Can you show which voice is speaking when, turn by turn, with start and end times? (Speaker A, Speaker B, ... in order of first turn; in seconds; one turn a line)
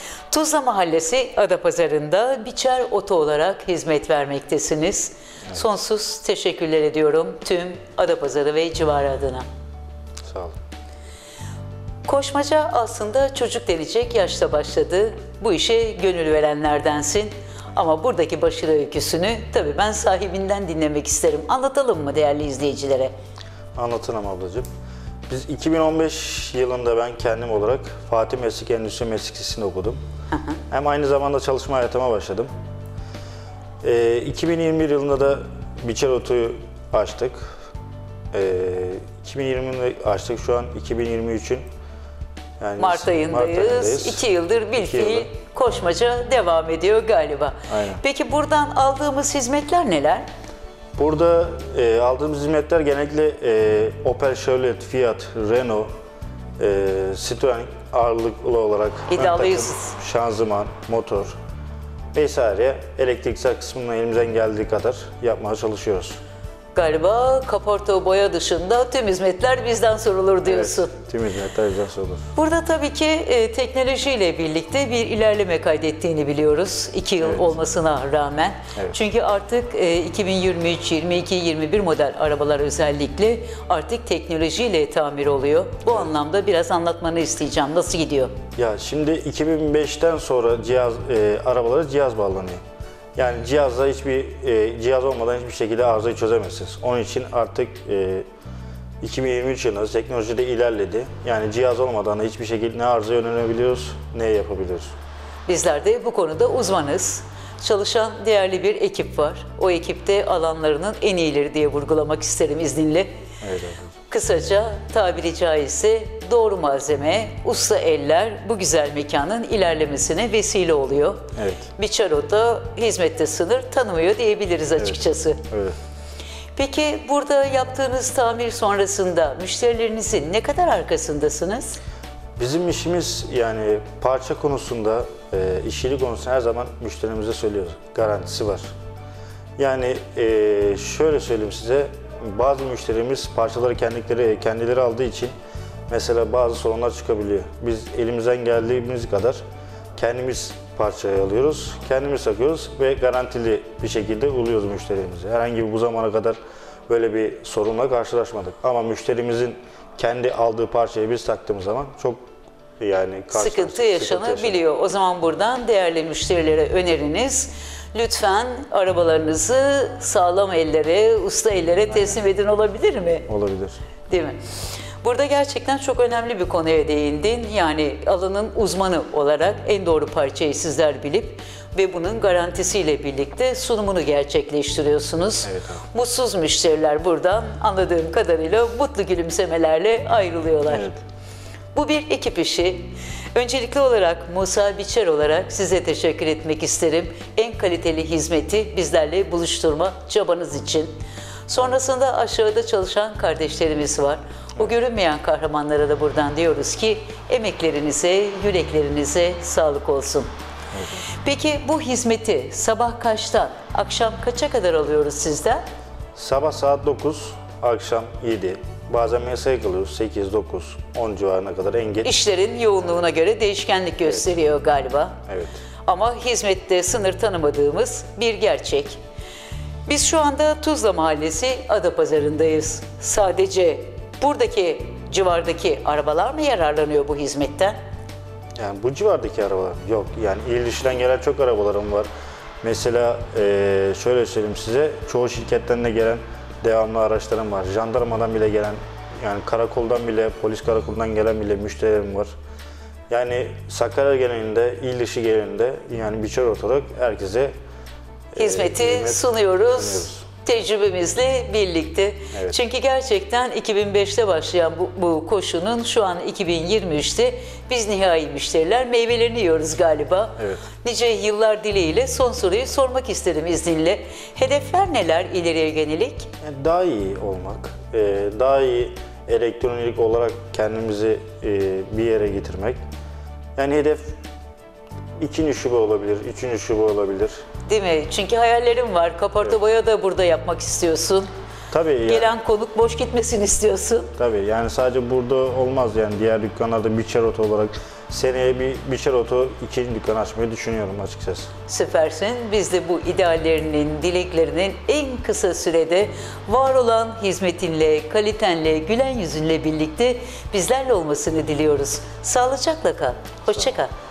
Speaker A: 0.3-9.5
Speaker B: 10.2-10.6
Speaker A: 12.1-23.1
Speaker B: 23.8-24.7
Speaker B: 25.3-30.0
Speaker A: 30.3-30.6
Speaker B: 30.7-32.5
Speaker B: 33.8-37.6
Speaker B: 38.3-41.7
Speaker B: 42.6-45.3
Speaker A: 42.8-50.3
Speaker B: 47.7-48.0
Speaker B: 51.0-55.9
Speaker B: 56.6-61.4
Speaker A: 59.1-60.0
Speaker B: 62.1-66.2
Speaker A: 66.7-70.9
Speaker B: 70.5-72.3
Speaker A: 72.3-88.3
Speaker B: 77.2-77.5
Speaker B: 88.6-92.6
Speaker B: 93.2-98.3
Speaker B: 99.0-104.9
Speaker A: 105.5-113.1
Speaker B: 113.4-113.9
Speaker A: 114.1-125.4
Speaker B: 121.4-121.7
Speaker B: 124.8-125.8
Speaker A: 126.6-131.8
Speaker B: 132.4-138.7
Speaker B: 139.6-145.3
Speaker B: 145.9-149.4
Speaker B: 150.0-156.4
Speaker B: 156.9-162.2
Speaker B: 162.8-164.6
Speaker A: 163.3-173.3
Speaker B: 173.3-173.8
Speaker A: 174.1-174.4
Speaker A: 175.0-190.9
Speaker B: 185.4-185.8
Speaker B: 190.7-191.0
Speaker A: 191.8-200.9
Speaker A: 201.5-210.3
Speaker B: 210.7-211.0
Speaker A: 211.2-215.6
Speaker B: 216.2-222.1
Speaker A: 222.0-225.2
Speaker B: 225.3-225.6
Speaker A: 225.9-229.0
Speaker A: 229.9-237.8
Speaker B: 238.6-242.1
Speaker B: 242.6-252.3
Speaker B: 253.1-257.5
Speaker B: 258.3-260.2
Speaker A: 258.4-276.3
Speaker B: 270.4-270.6
Speaker B: 276.4-282.8
Speaker B: 283.6-284.2
Speaker B: 285.2-287.4
Speaker A: 287.7-291.3
Speaker B: 291.7-292.3
Speaker A: 292.1-294.1
Speaker B: 294.2-301.5
Speaker A: 301.7-313.9